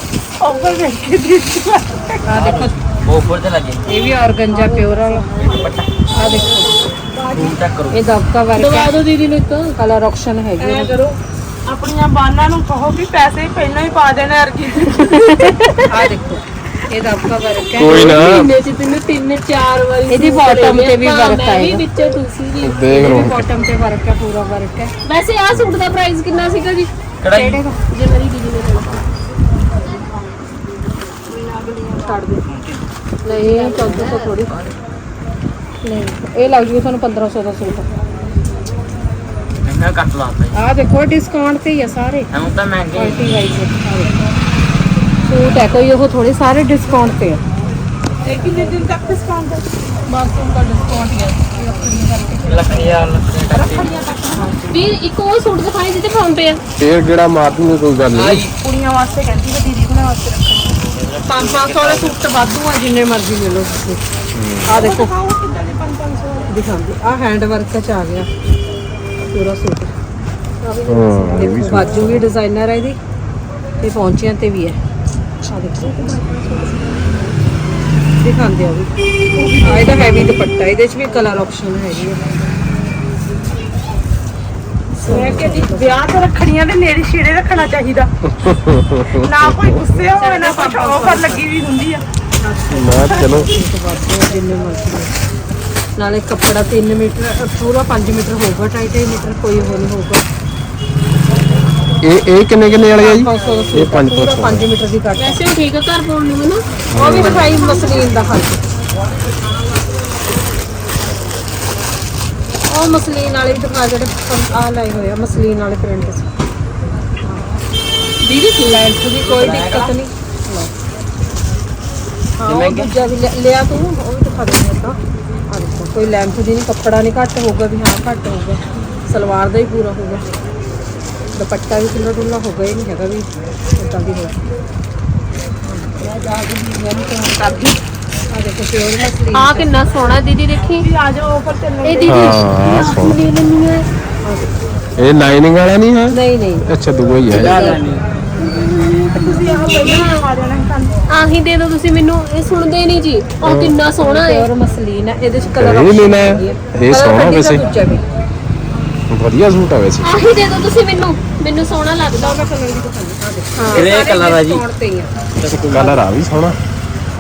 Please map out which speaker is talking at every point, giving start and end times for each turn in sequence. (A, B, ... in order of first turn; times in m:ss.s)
0:00.4-0:02.5 A
0:02.2-0:02.8 B
0:02.3-0:03.8 C
0:03.9-0:05.5 B
0:04.5-0:05.5 D
0:05.3-0:07.6 A
0:05.4-0:06.0 C
0:06.1-0:06.7 B
0:06.2-0:06.7 D
0:07.3-0:08.0 C
0:07.9-0:09.0 B
0:08.5-0:09.7 D
0:09.8-0:11.0 B
0:10.6-0:15.5 A
0:14.8-0:16.0 D
0:15.9-0:18.2 B
0:17.8-0:18.5 E
0:17.8-0:23.0 D
0:20.1-0:21.8 B
0:22.6-0:23.5 E
0:22.8-0:24.9 B
0:25.0-0:26.9 D
0:25.5-0:25.9 E
0:27.2-0:27.6 C
0:27.3-0:27.8 B
0:27.9-0:29.0 D
0:28.8-0:29.0 C
0:31.2-0:32.3 A
0:32.0-0:32.4 B
0:32.4-0:32.9 C
0:33.2-0:34.5 B
0:33.4-0:34.3 D
0:34.5-0:34.8 C
0:35.8-0:37.9 B
0:39.6-0:40.6 C
0:40.5-0:42.3 B
0:42.3-0:43.5 C
0:42.9-0:44.2 B
0:45.2-0:47.4 B
0:48.2-0:49.6 A
0:50.1-0:53.0 B
0:52.4-0:54.0 C
0:53.5-0:54.9 A
0:54.7-0:56.6 D
0:56.8-0:58.4 E
0:58.1-0:58.5 C
0:58.4-1:00.8 A
1:00.9-1:02.2 C
1:01.3-1:04.0 B
1:04.3-1:04.8 E
1:04.7-1:05.1 B
1:04.7-1:06.6 A
1:06.5-1:08.3 B
1:09.2-1:09.9 B
1:10.6-1:12.1 D
1:10.9-1:12.3 E
1:11.3-1:13.0 B
1:13.8-1:14.8 B
1:15.5-1:15.9 B
1:15.8-1:17.3 A
1:18.2-1:19.0 B
1:19.3-1:20.4 A
1:19.6-1:22.4 B
1:25.0-1:26.1 B
1:25.0-1:25.6 E
1:25.1-1:28.1 A
1:28.4-1:29.8 E
1:29.2-1:32.0 A
1:30.2-1:31.4 B
1:32.4-1:35.1 B
1:32.7-1:33.5 E
1:33.1-1:33.4 A
1:36.0-1:40.2 B
1:42.0-1:44.7 E
1:42.9-1:45.4 B
1:43.3-1:43.8 D
1:45.1-1:46.6 D
1:46.9-1:47.6 E
1:47.0-1:48.6 B
1:47.2-1:48.2 D
1:52.7-1:56.3 B
1:58.2-1:59.0 D
1:58.6-2:00.7 B
1:59.2-2:00.0 C
2:02.4-2:05.0 B
2:02.4-2:02.9 C
2:05.5-2:10.3 B
2:11.3-2:14.4 B
2:15.6-2:17.8 B
2:18.3-2:19.7 B
2:19.3-2:20.9 D
2:20.7-2:22.3 A
2:21.8-2:23.8 D
2:22.1-2:23.2 E
2:24.2-2:24.5 B
2:25.0-2:27.7 E
2:26.1-2:26.7 B
2:27.3-2:28.0 C
2:27.3-2:27.8 B
2:28.4-2:30.2 D
2:29.1-2:31.0 A
2:31.1-2:34.5 D
2:33.4-2:33.8 E
2:34.0-2:38.0 B
2:35.6-2:37.6 E
2:39.1-2:40.1 E
2:40.0-2:42.5 D
2:42.2-2:46.0 B
2:43.6-2:43.9 A
2:43.7-2:44.6 C
2:45.4-2:45.9 C
2:45.5-2:46.6 E